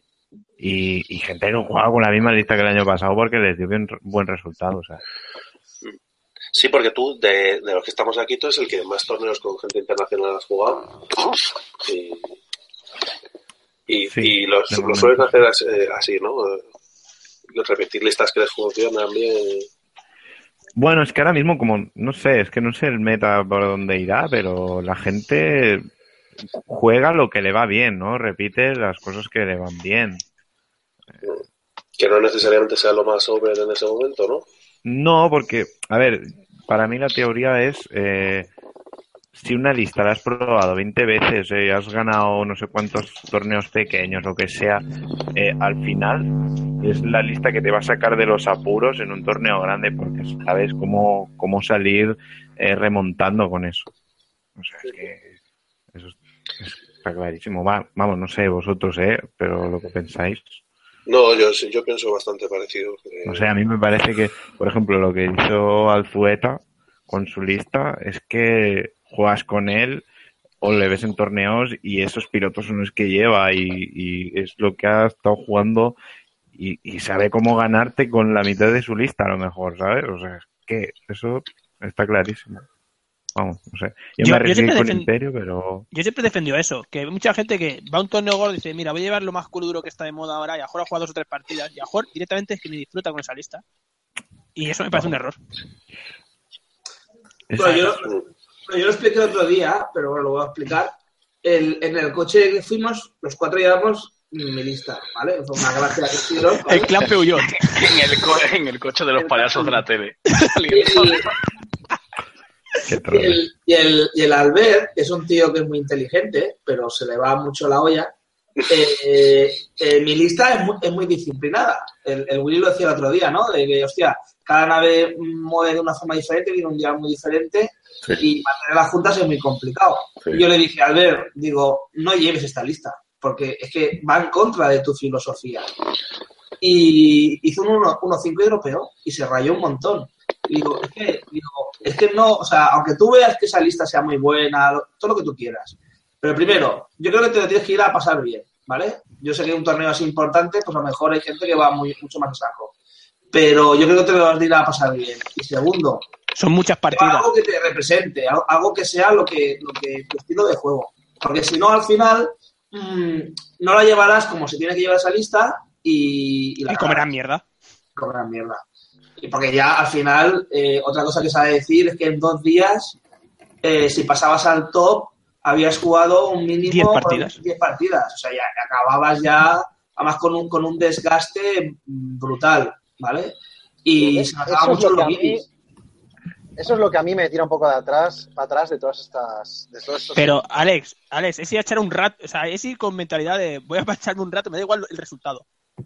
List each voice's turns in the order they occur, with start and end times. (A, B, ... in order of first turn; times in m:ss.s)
0:00.6-0:05.0 A
0:06.5-0:10.9 B
0:11.8-0:12.4 B
0:13.9-0:16.6 B
0:14.1-0:15.3 A
0:17.5-0:19.7 B
0:20.8-0:25.9 A
0:26.7-0:30.2 A
0:32.0-0:34.5 B
0:34.8-0:38.5 A
0:39.3-0:44.8 A
0:45.3-0:46.3 A
0:46.8-0:53.9 A
0:54.6-0:55.3 A
0:55.9-1:00.6 A
1:01.1-1:03.5 B
1:03.2-1:10.0 A
1:10.6-1:16.0 A
1:16.5-1:22.6 A
1:23.3-1:25.8 A
1:24.2-1:25.1 C
1:25.9-1:33.6 C
1:34.6-1:35.4 C
1:37.5-1:38.0 A
1:37.6-1:46.9 D
1:46.6-1:47.7 C
1:47.4-1:51.3 E
1:49.2-1:49.8 D
1:50.7-1:51.2 D
1:52.8-1:53.4 A
1:53.1-1:58.1 D
1:58.7-2:15.7 D
2:16.6-2:32.7 D
2:33.3-2:36.0 D
2:36.4-2:37.3 C
2:36.9-2:47.0 D
2:46.7-2:47.4 C
2:48.0-2:48.6 D
2:49.2-2:53.0 D
2:53.6-3:05.4 D
2:56.7-2:57.4 C
3:04.0-3:05.4 F
3:06.6-3:10.4 F
3:10.2-3:15.4 C